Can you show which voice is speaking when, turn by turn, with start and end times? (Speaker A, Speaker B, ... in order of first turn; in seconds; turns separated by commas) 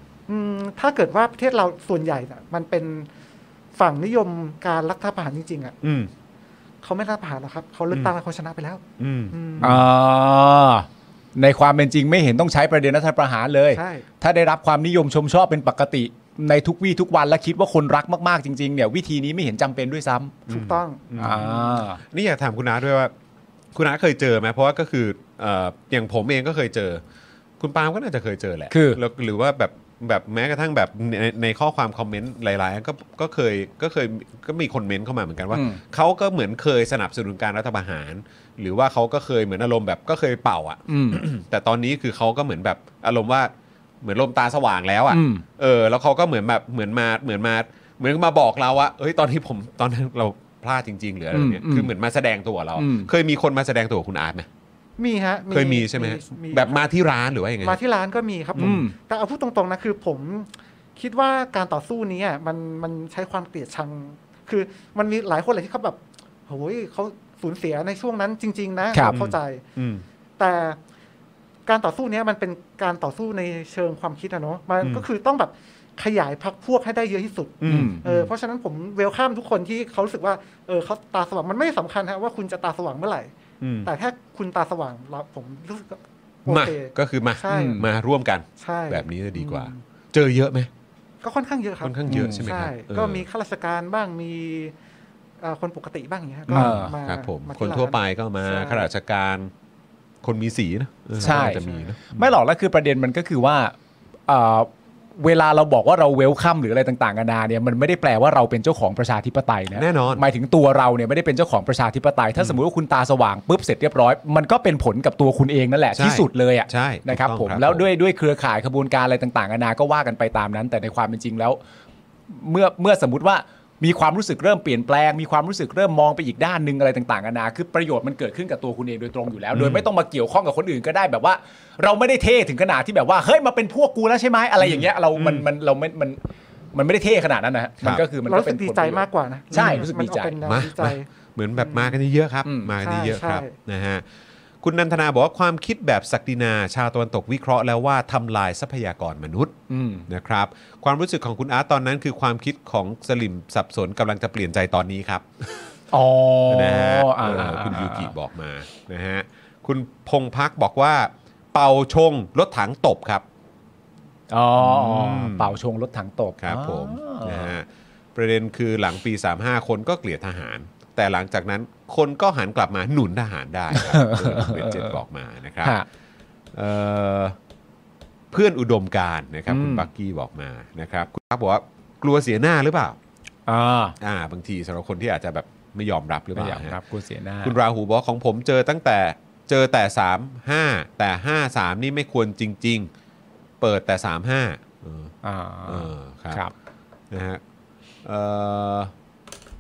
Speaker A: 0.3-3.1, Speaker A: 3.8-5.7, Speaker B: 5.8-6.1, Speaker A: 6.8-9.8, Speaker B: 9.0-9.8, Speaker C: 9.6-20.4, Speaker A: 13.7-14.1, Speaker A: 20.5-21.0, Speaker B: 20.5-23.1, Speaker C: 21.2-22.0, Speaker B: 23.7-27.0, Speaker B: 27.6-54.5, Speaker C: 28.7-29.0, Speaker C: 35.5-35.8, Speaker C: 40.9-41.2, Speaker C: 45.1-45.4, Speaker C: 51.3-51.9, Speaker C: 52.8-53.1, Speaker A: 55.0-56.8, Speaker B: 55.5-57.8, Speaker A: 57.6-69.6, Speaker B: 58.6-58.9, Speaker C: 58.6-59.0, Speaker B: 69.0-70.0, Speaker A: 70.4-70.8, Speaker A: 71.7-83.3, Speaker B: 77.6-78.3, Speaker C: 77.7-78.0, Speaker B: 83.6-83.9, Speaker A: 83.8-87.8, Speaker B: 86.5-90.7, Speaker C: 87.5-87.9, Speaker A: 88.6-89.8, Speaker A: 91.2-94.7, Speaker B: 91.8-93.2, Speaker C: 92.1-92.5, Speaker A: 95.4-98.9, Speaker B: 96.5-99.5, Speaker C: 96.5-97.0, Speaker B: 100.2-102.3, Speaker C: 101.2-103.8, Speaker A: 101.3-101.8, Speaker C: 104.3-121.6, Speaker B: 109.7-110.2, Speaker B: 115.9-117.9, Speaker C: 122.3-136.2, Speaker B: 129.5-129.9, Speaker B: 134.6-135.5, Speaker C: 136.7-140.4, Speaker A: 138.3-142.0, Speaker B: 139.5-139.9, Speaker B: 140.4-144.0, Speaker C: 142.4-142.8, Speaker A: 142.8-143.5, Speaker B: 144.6-149.5, Speaker C: 149.7-150.1, Speaker B: 150.1-155.6, Speaker C: 155.9-158.1, Speaker B: 156.5-163.2, Speaker C: 164.3-167.6, Speaker B: 164.6-165.5, Speaker B: 166.4-175.8, Speaker C: 173.7-175.0, Speaker B: 176.5-177.4, Speaker B: 178.3-183.0, Speaker C: 179.5-179.9, Speaker C: 183.5-184.0, Speaker B: 184.0-186.8, Speaker C: 186.3-187.6, Speaker B: 187.4-192.9, Speaker B: 193.6-195.1, Speaker C: 195.2-196.5, Speaker B: 195.7-196.4, Speaker B: 197.1-197.4, Speaker B: 198.1-198.9